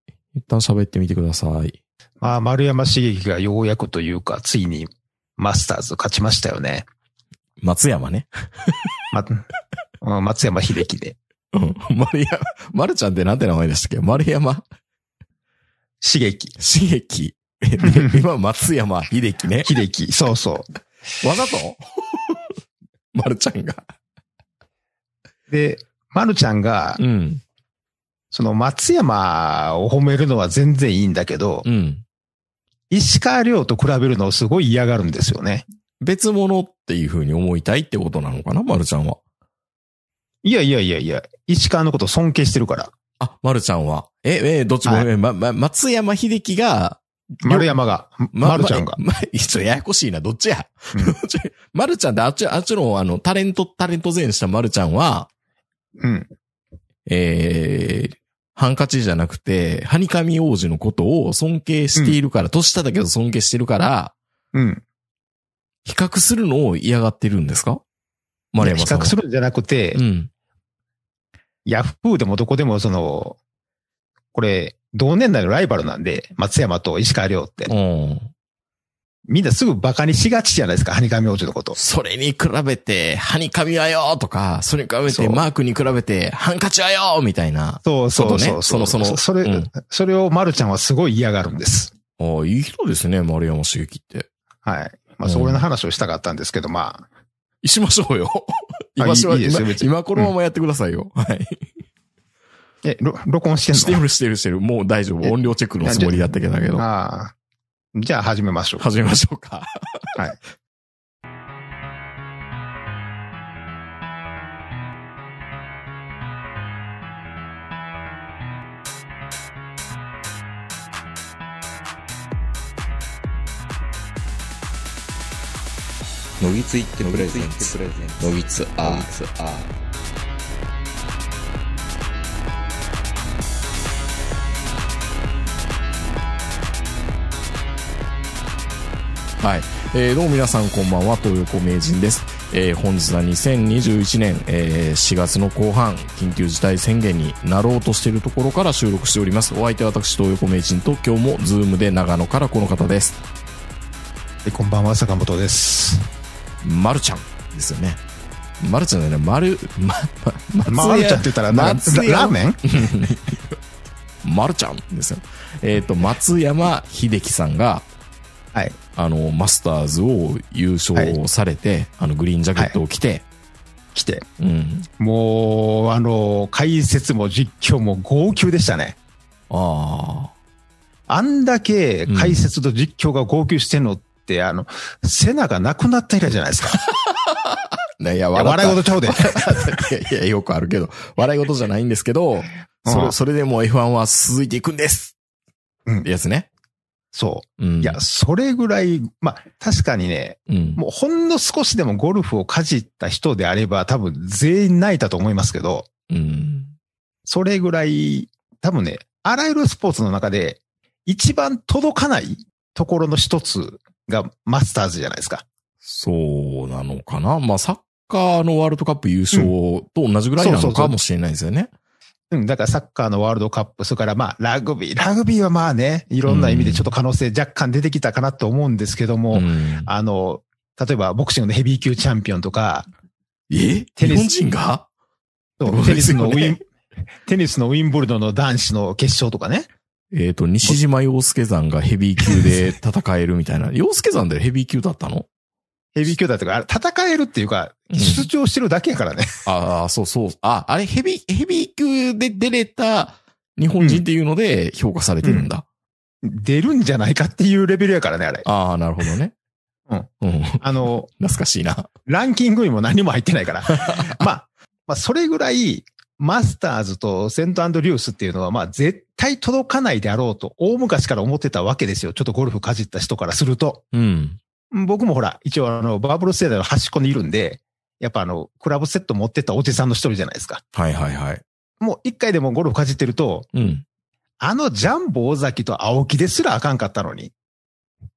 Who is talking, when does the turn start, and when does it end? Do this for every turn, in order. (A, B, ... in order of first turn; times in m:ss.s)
0:00.4-0:01.8 A
0:02.2-0:06.9 B
0:07.6-0:08.8 A
0:09.1-0:09.4 B
0:10.0-0:11.2 B
0:11.5-0:14.6 A
0:16.0-0:16.5 B
0:16.6-0:19.7 A
0:17.8-0:18.2 B
0:19.6-0:20.7 B
0:21.2-0:22.5 A
0:23.2-0:23.8 A
0:25.5-0:27.0 B
0:27.0-0:27.4 A
0:28.3-0:31.6 B
0:31.6-0:32.0 A
0:32.9-0:35.6 B
0:36.0-0:39.2 A
0:40.4-0:42.9 B
0:43.2-0:47.8 A
0:47.4-0:49.0 B
0:48.3-0:55.3 A
0:56.0-0:56.3 B
0:57.1-1:04.1 A
1:04.5-1:04.8 B
1:05.8-1:07.8 A
1:08.5-1:09.2 A
1:08.6-1:10.0 B
1:09.9-1:10.3 A
1:11.7-1:13.4 B
1:14.3-1:17.7 B
1:17.7-1:18.3 A
1:19.3-1:21.8 B
1:21.8-1:29.7 A
1:25.1-1:25.4 B
1:27.8-1:31.9 B
1:32.2-1:34.3 A
1:34.6-1:37.1 B
1:35.2-1:35.6 A
1:37.6-1:41.7 A
1:39.0-1:40.3 B
1:42.8-1:44.0 B
1:43.7-1:46.8 A
1:45.2-1:47.3 B
1:48.0-1:48.8 B
1:48.8-1:49.7 A
2:06.4-2:09.7 C
2:07.0-2:09.1 A
2:19.4-2:33.2 A
2:34.4-2:36.1 B
2:36.6-2:38.0 A
2:38.6-2:43.6 A
2:40.7-2:42.6 B
2:44.2-2:47.9 A
2:49.0-2:53.2 A
2:53.9-2:54.3 B
2:54.4-2:54.9 A
2:55.0-2:59.0 B
2:59.5-3:00.3 A
3:01.1-3:06.8 B
3:02.1-3:02.4 A
3:06.9-3:15.1 A
3:08.4-3:09.5 B
3:12.9-3:13.2 B
3:16.0-3:16.5 A
3:17.1-3:25.9 B
3:17.6-3:18.0 A
3:20.5-3:20.8 A
3:26.1-3:26.7 A
3:27.3-3:35.4 B
3:35.8-3:41.7 A
3:40.4-3:41.0 B
3:42.3-3:52.9 B
3:46.3-3:46.9 A
3:49.3-3:49.9 A
3:53.5-3:54.9 A
3:54.0-3:54.3 B
3:55.6-3:56.6 B
3:55.6-3:56.6 A
3:57.2-3:59.7 B
4:00.1-4:05.3 A
4:02.3-4:02.5 B
4:06.0-4:09.3 B
4:07.9-4:08.3 A
4:09.5-4:15.6 A
4:13.8-4:14.0 B
4:15.2-4:15.5 B
4:16.2-4:18.5 B
4:18.4-4:19.3 A
4:19.9-4:21.1 B
4:20.2-4:21.9 A
4:22.1-4:33.8 B
4:23.7-4:24.2 A
4:33.9-4:34.4 A
4:34.7-4:40.6 B
4:40.8-4:41.4 A
4:41.8-4:43.5 B
4:43.5-4:43.8 A
4:44.4-4:47.3 B